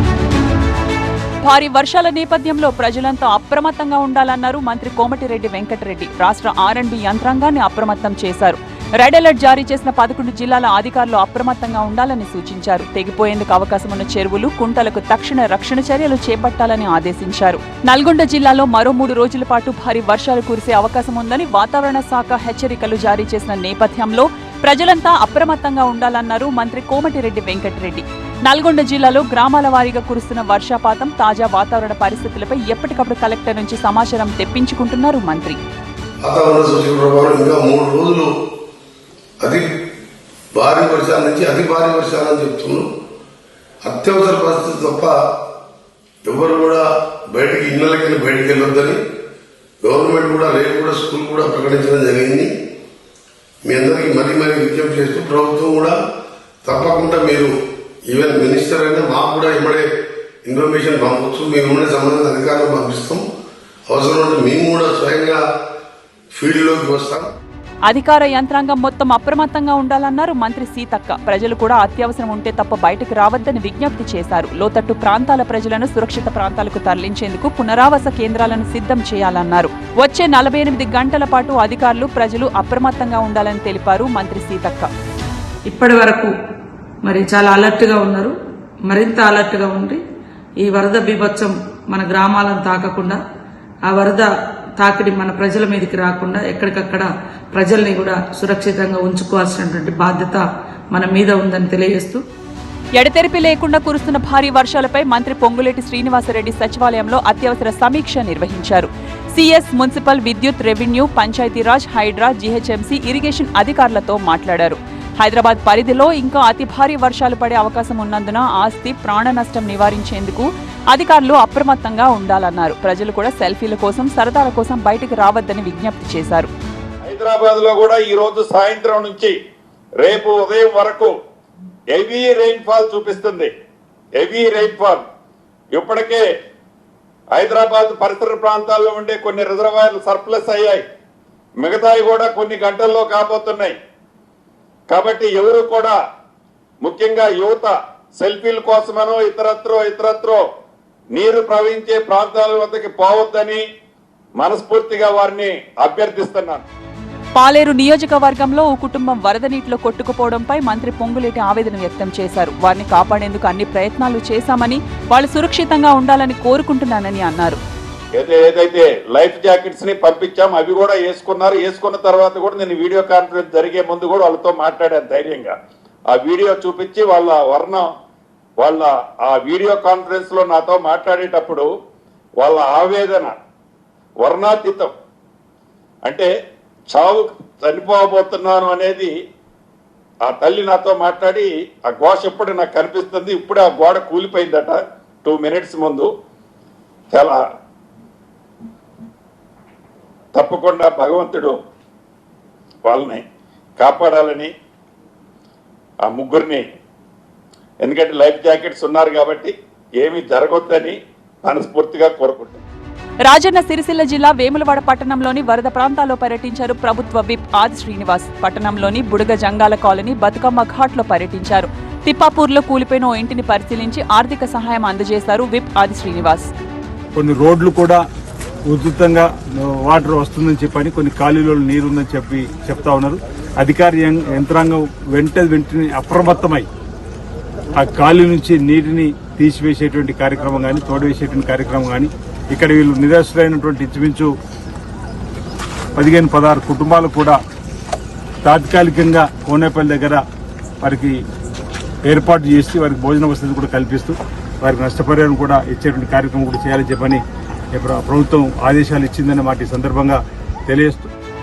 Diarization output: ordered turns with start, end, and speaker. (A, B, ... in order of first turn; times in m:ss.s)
0:01.4-0:35.6 A
0:36.2-0:38.3 B
0:39.4-0:39.7 B
0:40.5-0:42.9 B
0:43.8-0:45.2 B
0:46.2-0:49.0 B
0:49.8-0:52.5 B
0:53.6-0:56.0 B
0:56.6-0:57.5 B
0:58.1-0:59.9 B
1:00.4-1:03.2 B
1:03.9-1:05.4 B
1:06.3-1:07.3 B
1:07.9-1:24.9 A
1:25.7-1:26.3 C
1:27.0-1:28.3 C
1:28.9-1:30.0 C
1:30.6-1:33.2 C
1:33.9-1:42.2 C
1:43.0-2:06.5 A
2:07.0-2:09.3 D
2:10.0-2:11.1 D
2:11.9-2:13.5 D
2:14.2-2:15.0 D
2:15.7-2:16.2 D
2:17.3-2:20.8 D
2:21.6-2:23.8 D
2:24.9-2:26.0 D
2:26.8-2:30.4 D
2:31.1-2:33.6 D
2:34.4-2:36.6 D
2:37.4-2:47.6 A
2:48.2-2:55.5 D
2:56.1-2:57.9 D
2:58.6-3:01.7 D
3:02.4-3:03.4 D
3:04.2-3:04.9 D
3:06.0-3:06.3 D
3:06.9-3:09.1 D
3:10.2-3:16.1 D
3:17.1-3:17.4 D
3:20.3-3:21.6 D
3:22.8-3:23.2 D
3:23.8-3:24.5 D
3:26.0-3:26.6 D
3:27.8-3:32.6 D
3:33.2-3:46.5 A
3:47.2-3:48.0 E
3:48.7-3:56.7 E
3:57.7-4:04.3 E
4:06.0-4:07.4 E
4:08.4-4:10.2 E
4:10.8-4:11.2 E
4:12.0-4:21.1 E